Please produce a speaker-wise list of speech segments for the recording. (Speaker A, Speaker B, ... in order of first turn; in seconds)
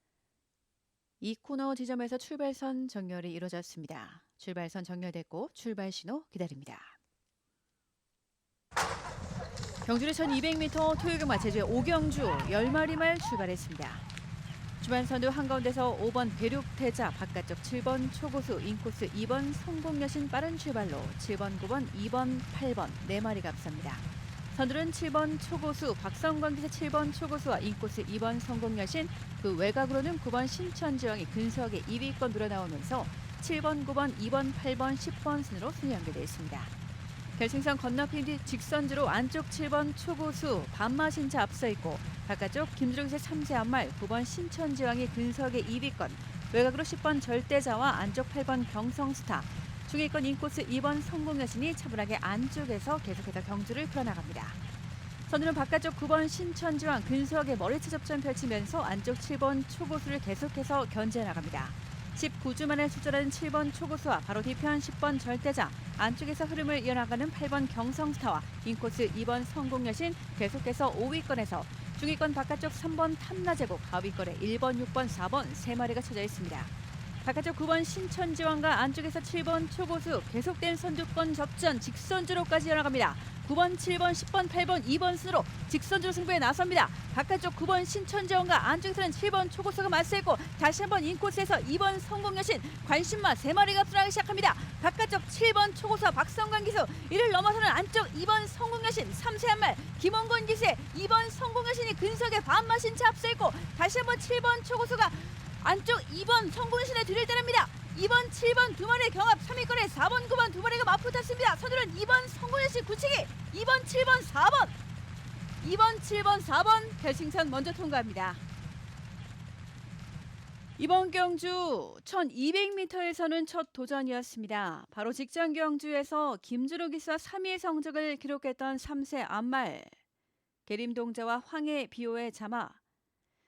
Speaker A: 1.2-6.9, 9.8-14.1, 14.8-36.7, 37.4-54.6, 55.3-76.7, 77.2-114.8, 115.6-118.4, 120.8-129.9, 130.7-132.8